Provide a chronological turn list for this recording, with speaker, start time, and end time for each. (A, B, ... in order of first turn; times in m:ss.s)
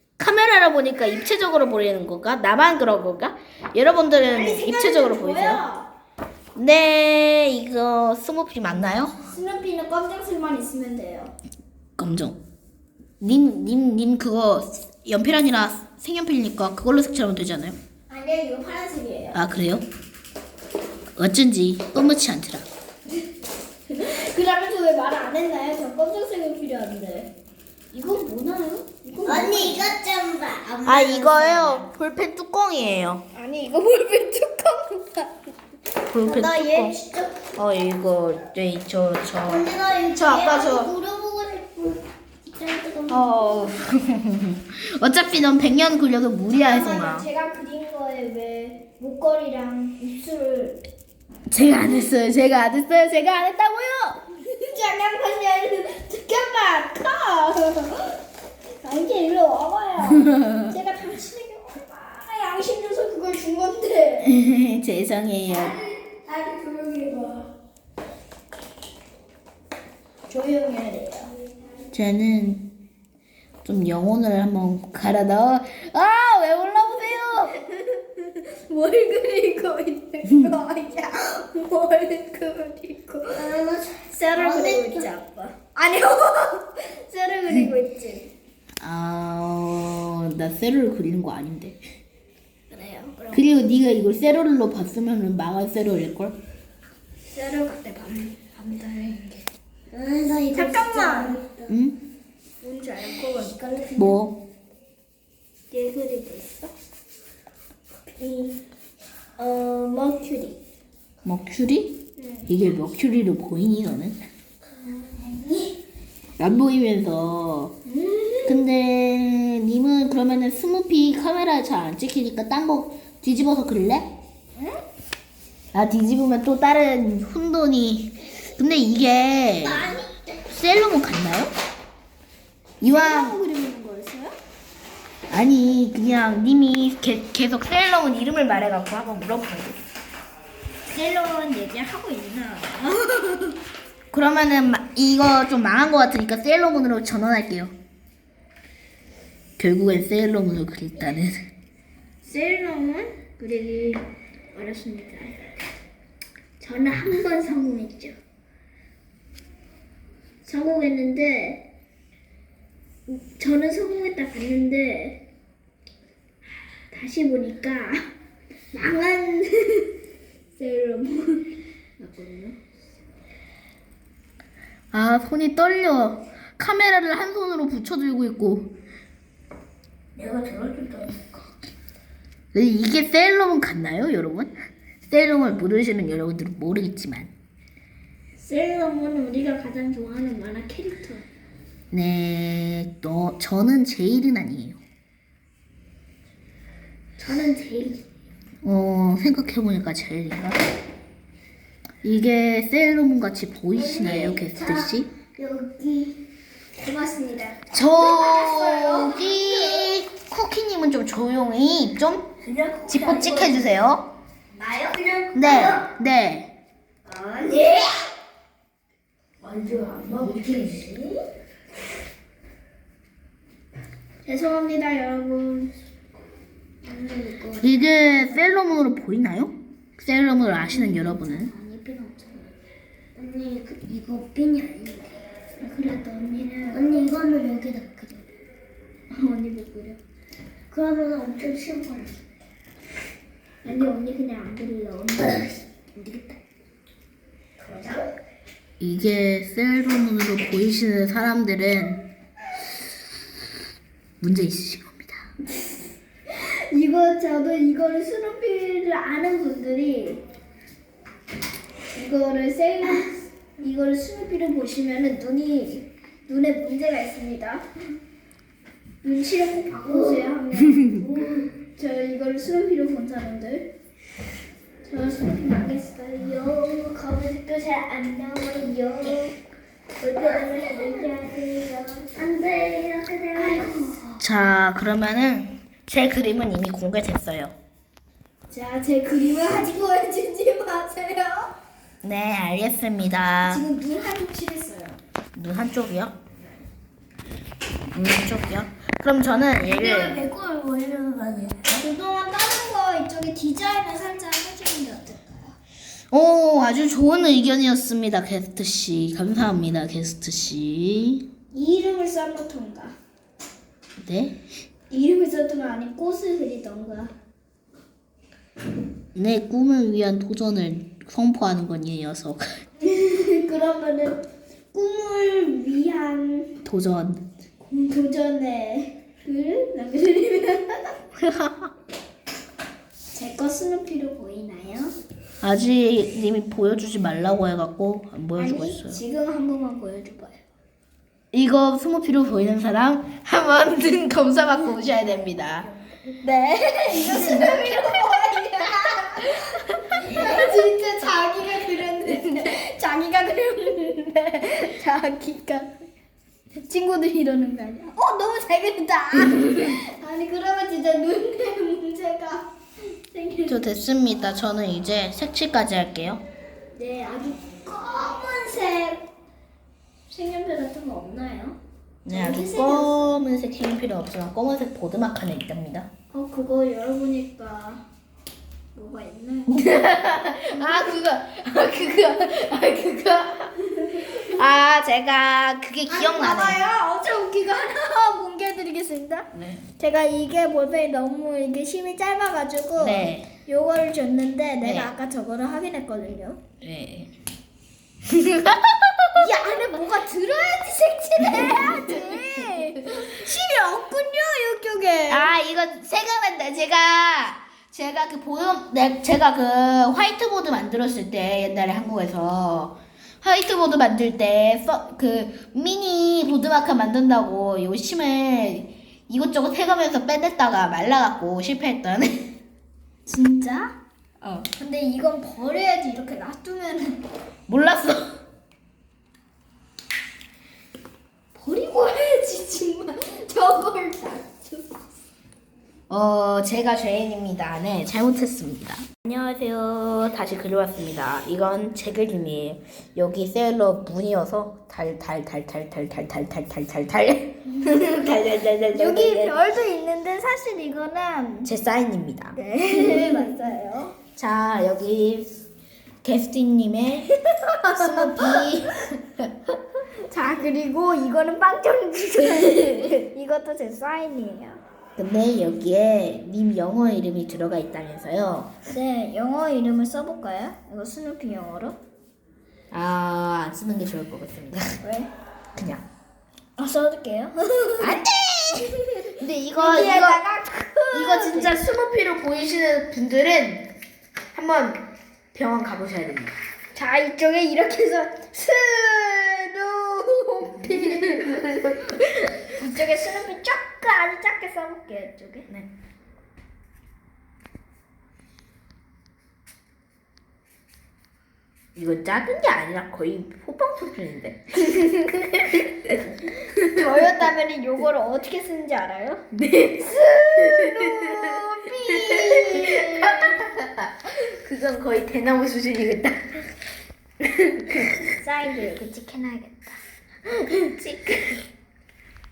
0:00.2-0:05.6 A
0:04.2-0:05.9 B
0:06.6-0:09.2 A
0:09.2-0:11.3 B
0:12.0-0:12.4 A
0:13.2-0:17.8 A
0:18.1-0:19.4 B
0:19.3-0:19.9 A
0:21.2-0:22.7 A
0:23.9-0:27.3 B
0:27.9-0:29.9 B
0:29.2-0:31.9 C
0:30.8-0:33.2 A
0:33.3-0:35.4 B
0:36.1-0:37.0 A
0:36.2-0:37.4 C
0:37.6-0:40.9 A
0:39.5-0:43.6 C
0:43.1-0:47.3 A
0:46.6-0:50.8 B
0:51.5-0:54.2 A
0:54.4-0:58.2 B
0:58.8-1:04.4 B
1:04.2-1:05.8 A
1:05.5-1:07.5 B
1:10.3-1:11.3 B
1:11.9-1:12.7 A
1:13.6-1:17.6 A
1:17.6-1:23.4 B
1:23.4-1:25.1 C
1:24.0-1:28.3 B
1:28.8-1:31.8 A
1:32.7-1:33.5 B
1:33.3-1:36.4 A
1:37.3-1:39.3 B
1:39.9-1:41.7 C
1:40.5-1:41.4 B
1:41.7-1:42.0 A
1:42.6-1:44.2 B
1:44.0-1:44.4 A
1:45.7-1:46.7 B
1:48.2-1:48.6 B
1:49.4-1:50.6 B
1:51.2-1:54.2 A
1:52.2-1:52.5 B
1:55.0-1:55.7 B
1:56.4-1:57.7 A
1:57.9-1:58.6 B
1:58.4-2:04.1 A
2:05.7-2:09.9 A
2:09.8-2:10.1 B
2:10.5-2:11.5 A
2:12.8-2:13.4 A
2:12.8-2:14.4 B
2:15.3-2:19.8 A
2:20.9-2:23.6 B
2:24.1-2:27.7 A
2:29.6-2:31.5 A
2:32.2-2:35.4 B
2:36.6-2:38.2 B
2:40.4-2:41.6 B
2:43.1-2:45.2 B
2:46.9-2:48.1 B
2:48.7-2:49.9 B
2:50.6-2:52.5 B
2:54.9-2:58.7 A
3:00.2-3:01.4 C
3:02.5-3:04.5 A
3:05.1-3:07.3 A
3:08.4-3:11.3 B
3:11.9-3:14.8 A
3:17.2-3:18.0 B
3:18.6-3:20.6 A
3:22.0-3:25.1 A
3:23.8-3:24.9 B
3:25.4-3:26.2 B
3:26.8-3:29.5 B
3:27.7-3:32.3 A
3:28.2-3:28.6 C
3:32.4-3:33.6 C
3:32.9-3:34.1 A
3:34.5-3:35.9 C
3:35.3-3:36.5 A
3:37.1-3:38.1 C
3:39.4-3:41.2 C
3:44.2-3:45.7 B
3:46.8-3:48.4 C
3:47.6-3:51.5 A
3:50.9-3:52.4 C
3:53.2-3:55.2 C
3:55.6-3:57.0 B
3:56.7-3:58.4 C
3:59.1-4:00.0 B
4:00.7-4:02.2 C
4:03.6-4:05.6 B
4:06.0-4:06.4 C
4:07.7-4:08.0 C
4:08.8-4:12.1 A
4:14.2-4:15.3 A
4:16.3-4:20.2 B
4:21.9-4:27.6 B
4:29.0-4:33.7 B
4:30.9-4:31.5 C
4:34.8-4:39.4 B
4:40.0-4:42.3 B
4:40.4-4:40.9 C
4:42.2-4:44.2 C
4:43.3-4:44.0 B
4:44.2-4:47.5 A
4:48.5-4:51.5 B
4:52.0-4:53.6 A
4:53.4-4:55.0 B
4:55.4-4:56.2 A
4:57.9-5:00.3 A
4:59.7-5:01.8 C
5:01.7-5:05.6 B
5:06.1-5:11.3 A
5:11.5-5:13.0 B
5:14.0-5:14.4 A
5:14.9-5:17.1 B
5:19.2-5:22.6 A
5:22.8-5:26.6 B
5:26.6-5:27.2 A
5:27.6-5:31.0 B
5:31.2-5:31.7 A
5:33.1-5:34.9 B
5:35.4-5:39.0 A
5:38.4-5:40.4 B
5:41.3-5:45.7 A
5:46.2-5:55.7 B
5:46.9-5:48.0 A
5:49.2-5:50.5 A
5:56.6-6:03.6 B
6:03.5-6:06.2 A
6:06.8-6:09.0 B
6:10.1-6:11.6 B
6:12.0-6:15.9 A
6:12.1-6:13.1 B
6:16.1-6:17.8 B
6:18.7-6:19.6 B
6:19.5-6:26.7 A
6:25.9-6:36.4 B
6:29.4-6:29.6 A
6:32.8-6:33.3 A
6:34.6-6:34.9 A
6:36.6-6:37.1 A
6:38.1-6:39.6 A
6:39.2-6:45.3 B
6:41.3-6:42.1 A
6:45.1-7:02.3 A
7:03.1-7:03.7 B
7:04.4-7:07.0 B
7:07.5-7:08.2 A
7:11.3-7:14.8 B
7:15.9-7:29.4 A
7:28.7-7:31.5 B
7:31.4-7:33.3 A
7:32.4-7:34.0 B
7:34.2-7:35.4 A
7:36.0-7:37.1 A
7:37.2-7:38.5 B
7:37.7-7:39.3 A
7:40.1-7:44.6 B
7:42.3-7:42.9 A
7:45.0-7:48.5 A
7:48.7-7:51.8 B
7:52.7-7:54.6 A
7:54.8-7:55.1 B
7:55.6-7:55.8 A
7:56.6-7:58.0 B
7:57.8-8:00.2 A
7:58.6-8:01.6 B
8:00.9-8:03.7 A
8:04.3-8:06.3 A
8:06.8-8:15.5 B
8:10.7-8:12.5 A
8:21.8-8:27.2 A
8:26.6-8:29.2 B
8:29.3-8:36.5 A
8:29.8-8:33.2 B
8:37.2-8:38.0 A
8:38.2-8:39.7 B
8:40.8-8:41.1 B